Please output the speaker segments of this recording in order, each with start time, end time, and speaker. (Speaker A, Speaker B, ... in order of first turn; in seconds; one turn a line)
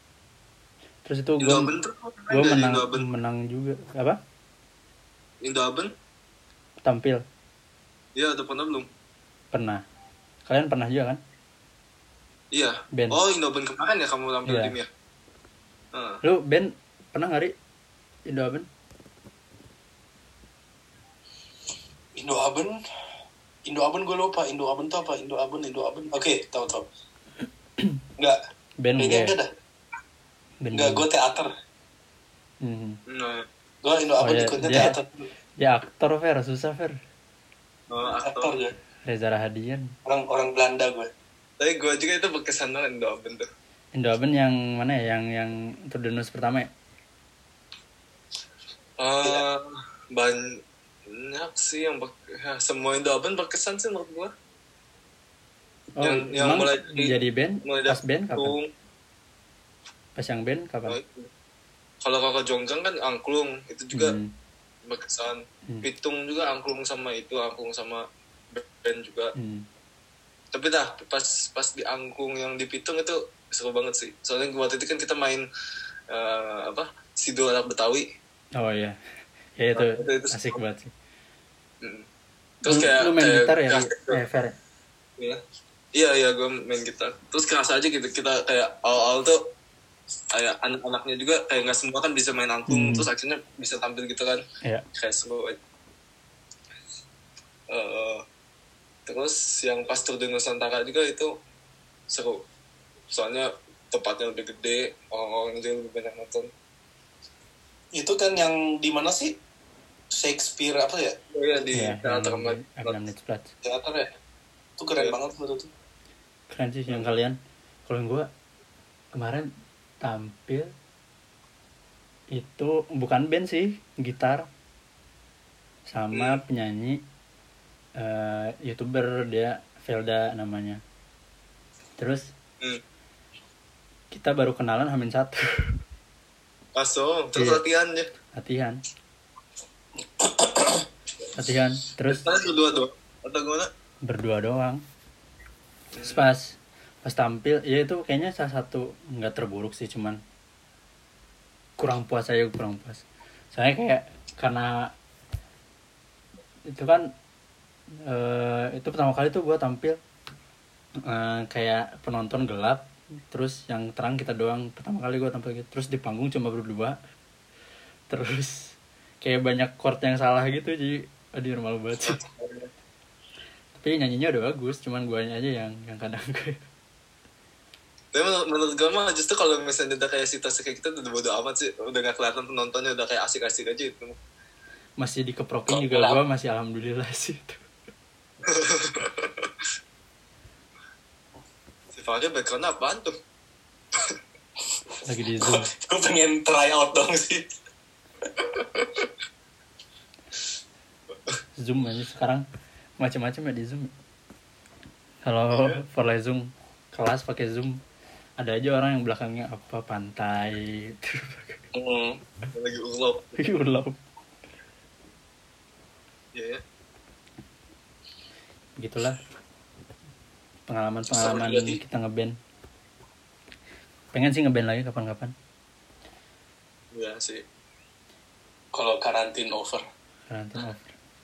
Speaker A: 1.0-1.7
Speaker B: 1.4-3.1
Speaker A: 2.3-4.2
Speaker B: 5.4-5.9
Speaker A: 6.8-7.2
Speaker B: 8.2-8.9
Speaker A: 9.5-9.8
Speaker A: 10.5-11.2
Speaker B: 12.5-14.9
Speaker A: 12.9-13.2
Speaker A: 14.5-14.7
Speaker B: 15.9-16.2
Speaker A: 16.2-17.5
Speaker A: 18.3-18.7
Speaker C: 22.2-22.8
Speaker C: 23.7-26.9
Speaker A: 28.8-29.4
Speaker C: 29.0-29.5
Speaker A: 30.6-31.1
Speaker C: 30.7-31.5
Speaker A: 32.6-33.0
Speaker B: 33.1-33.5
Speaker C: 33.8-35.2
Speaker A: 34.2-35.0
Speaker A: 35.6-37.0
Speaker B: 37.9-38.5
Speaker C: 38.2-38.7
Speaker A: 39.0-39.9
Speaker C: 40.0-41.1
Speaker B: 41.6-43.5
Speaker A: 43.9-46.7
Speaker B: 49.0-50.5
Speaker B: 51.1-54.3
Speaker A: 56.0-58.5
Speaker B: 56.0-58.7
Speaker A: 60.2-61.0
Speaker B: 60.9-61.3
Speaker B: 62.0-64.2
Speaker A: 63.9-64.3
Speaker B: 64.8-69.3
Speaker A: 69.3-69.7
Speaker B: 70.5-75.5
Speaker B: 76.1-78.0
Speaker A: 78.6-79.0
Speaker A: 79.6-80.9
Speaker B: 79.7-80.6
Speaker B: 81.8-82.1
Speaker B: 82.6-84.2
Speaker A: 82.7-84.5
Speaker B: 85.9-89.4
Speaker B: 90.3-94.4
Speaker A: 92.7-93.1
Speaker B: 94.9-95.6
Speaker B: 97.7-98.2
Speaker B: 99.1-101.3
Speaker B: 102.1-102.4
Speaker B: 103.1-106.5
Speaker C: 107.9-109.3
Speaker C: 110.1-111.2
Speaker B: 111.3-113.0
Speaker A: 111.7-113.5
Speaker C: 113.6-114.1
Speaker C: 114.8-115.7
Speaker A: 116.5-118.3
Speaker A: 119.1-119.5
Speaker A: 120.0-120.7
Speaker A: 122.3-124.5
Speaker A: 125.9-127.0
Speaker B: 126.1-126.4
Speaker A: 128.0-130.8
Speaker A: 132.0-132.3
Speaker A: 134.1-135.7
Speaker B: 136.8-138.1
Speaker A: 137.3-137.6
Speaker A: 138.3-138.8
Speaker C: 140.2-140.8
Speaker A: 141.3-142.2
Speaker B: 142.1-143.7
Speaker A: 144.0-144.8
Speaker B: 145.9-146.3
Speaker A: 146.0-150.2
Speaker A: 151.8-154.9
Speaker A: 156.7-157.1
Speaker A: 158.0-160.0
Speaker A: 161.0-167.0
Speaker A: 168.1-172.2
Speaker B: 172.0-172.7
Speaker A: 173.8-176.6
Speaker B: 178.1-184.2
Speaker A: 185.0-187.6
Speaker C: 185.7-186.2
Speaker B: 188.4-189.5
Speaker B: 191.9-193.1
Speaker A: 195.0-195.7
Speaker C: 195.4-197.4
Speaker A: 201.6-202.4
Speaker A: 203.0-203.9
Speaker A: 205.2-207.8
Speaker B: 205.5-205.8
Speaker A: 208.4-211.6
Speaker C: 211.7-212.2
Speaker B: 212.5-213.4
Speaker A: 213.4-214.0
Speaker B: 216.3-216.6
Speaker A: 218.8-219.2
Speaker A: 220.7-222.3
Speaker C: 221.1-221.8
Speaker A: 224.1-225.3
Speaker B: 226.9-227.4
Speaker C: 228.7-229.8
Speaker A: 230.3-230.9